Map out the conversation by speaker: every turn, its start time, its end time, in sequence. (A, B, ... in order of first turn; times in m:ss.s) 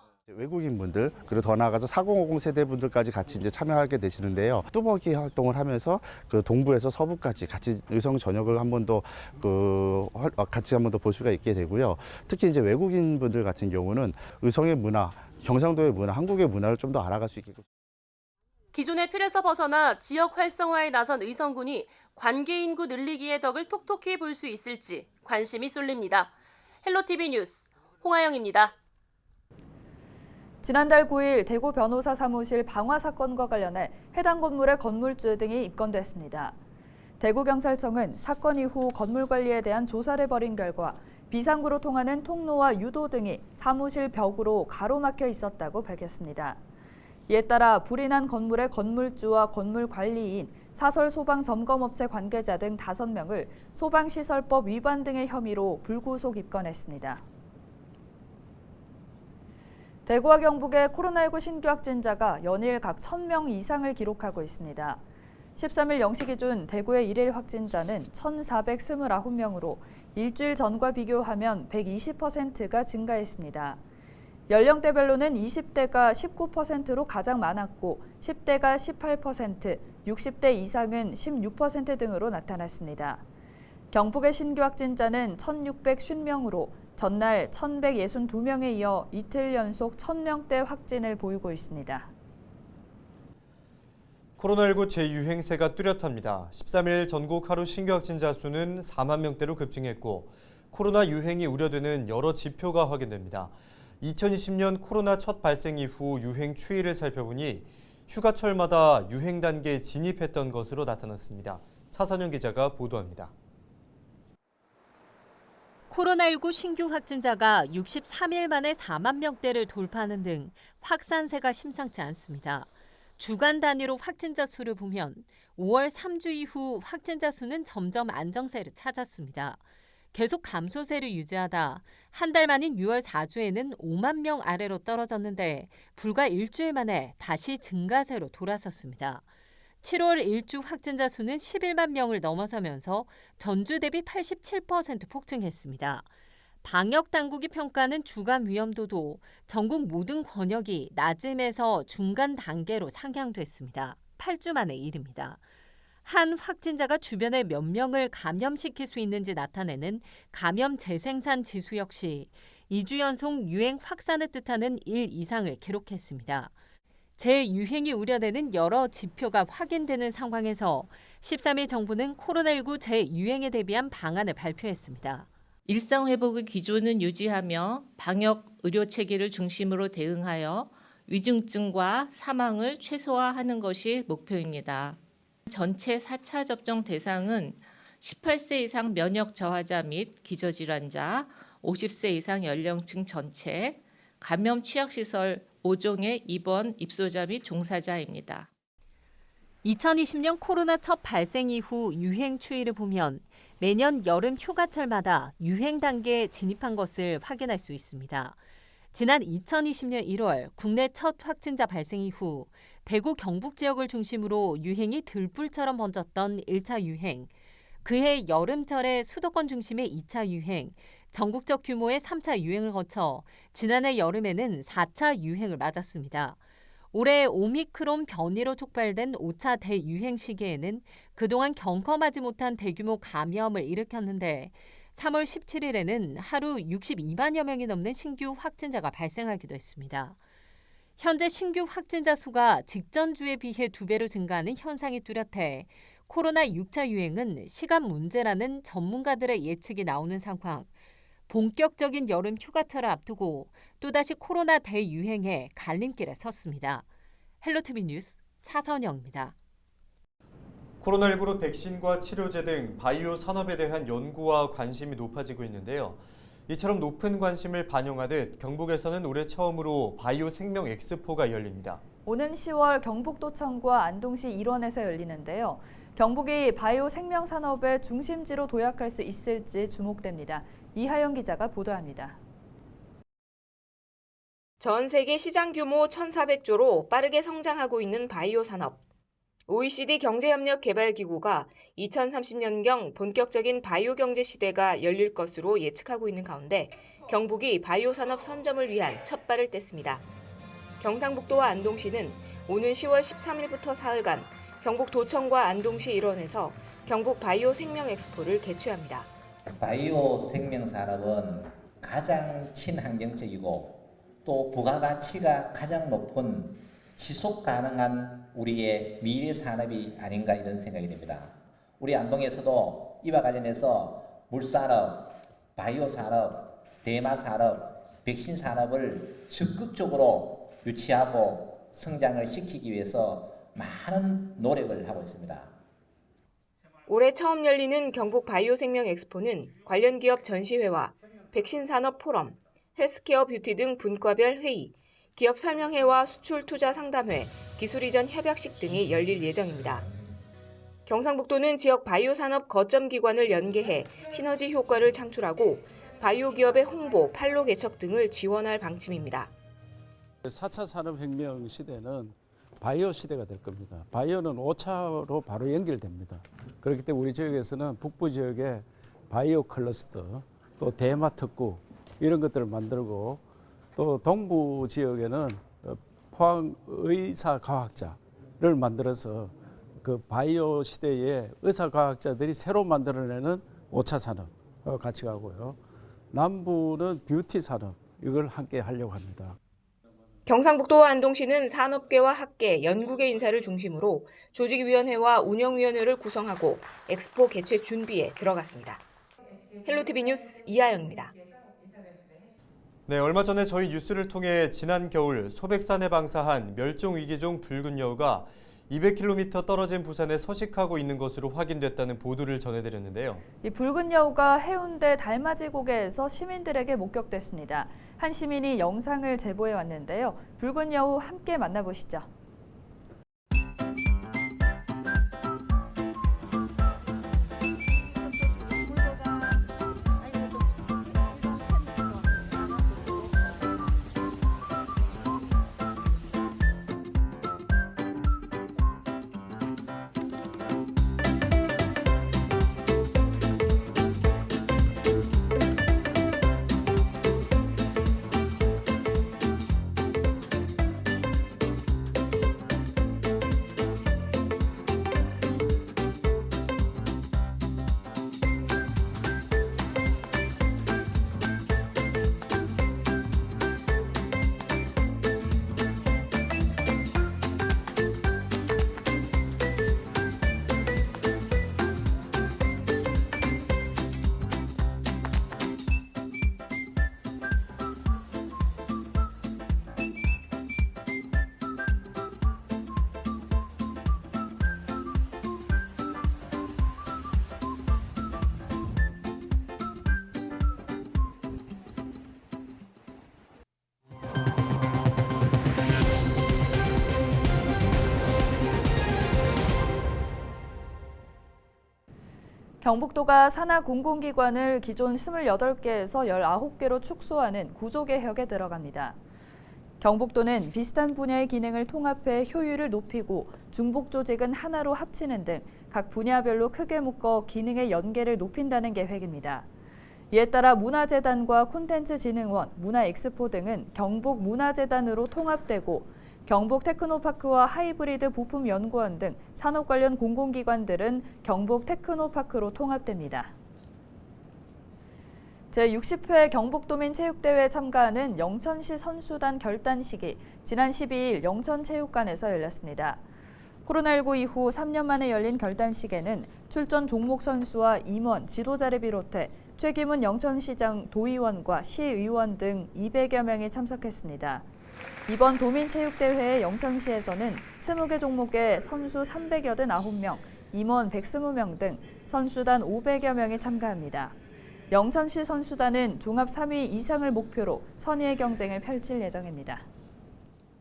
0:00.3-0:17.6 A
0:18.7-0:26.3 B
0:26.8-0:28.7 B
0:30.6-0:36.6 C
0:37.2-0:46.6 C
0:47.3-0:57.2 C
1:00.0-1:05.0 C
1:05.6-1:13.8 C
1:14.5-1:23.2 C
1:23.9-1:32.1 C
1:34.4-1:53.3 D
1:55.9-2:02.6 E
1:56.9-1:57.7 D
1:58.3-1:58.7 D
1:59.5-2:00.5 D
2:03.2-2:09.5 E
2:03.6-2:05.1 D
2:05.9-2:09.0 D
2:10.1-2:19.1 E
2:10.4-2:11.8 D
2:12.3-2:18.8 D
2:19.8-2:22.9 D
2:19.9-2:26.0 E
2:24.0-2:25.5 D
2:26.6-2:35.3 E
2:27.6-2:29.1 D
2:29.8-2:33.3 D
2:33.9-2:34.8 D
2:36.1-2:46.4 E
2:37.2-2:37.7 D
2:38.2-2:39.8 D
2:40.8-2:42.2 D
2:42.9-2:45.9 D
2:47.2-2:55.2 E
2:47.7-2:48.5 D
2:50.1-2:50.6 D
2:51.6-2:54.1 D
2:55.6-3:18.5 F
3:19.6-3:28.3 E
3:21.2-3:23.2 D
3:24.5-3:25.1 D
3:26.0-3:27.1 D
3:28.9-3:37.1 E
3:29.6-3:30.9 D
3:31.6-3:32.4 D
3:33.4-3:37.2 D
3:37.8-3:46.3 E
3:38.2-3:40.7 D
3:41.4-3:43.1 D
3:43.7-3:46.1 D
3:46.9-4:00.1 E
3:47.2-3:50.6 D
3:51.5-3:54.4 D
3:55.1-3:59.4 D
4:01.0-4:10.6 E
4:01.3-4:03.4 D
4:07.1-4:07.9 D
4:11.3-4:16.8 E
4:17.4-4:19.3 E
4:20.8-4:31.8 D
4:32.0-4:42.2 C
4:44.6-4:48.8 G
4:49.5-5:00.0 G
5:00.8-5:09.1 G
5:09.5-5:25.0 H
5:25.6-5:35.5 H
5:36.9-5:49.9 G
5:50.8-5:59.3 G
6:00.2-6:13.2 I
6:13.8-6:25.6 I
6:26.1-6:29.3 I
6:30.2-6:38.8 G
6:39.6-6:41.1 G
6:42.9-6:53.2 D
6:53.4-7:02.1 C
8:22.6-8:29.0 C
8:29.8-8:39.5 C
8:40.1-8:53.3 C
8:55.5-9:03.0 C
9:03.6-9:14.4 C
9:15.1-9:24.2 C
9:24.7-9:29.6 C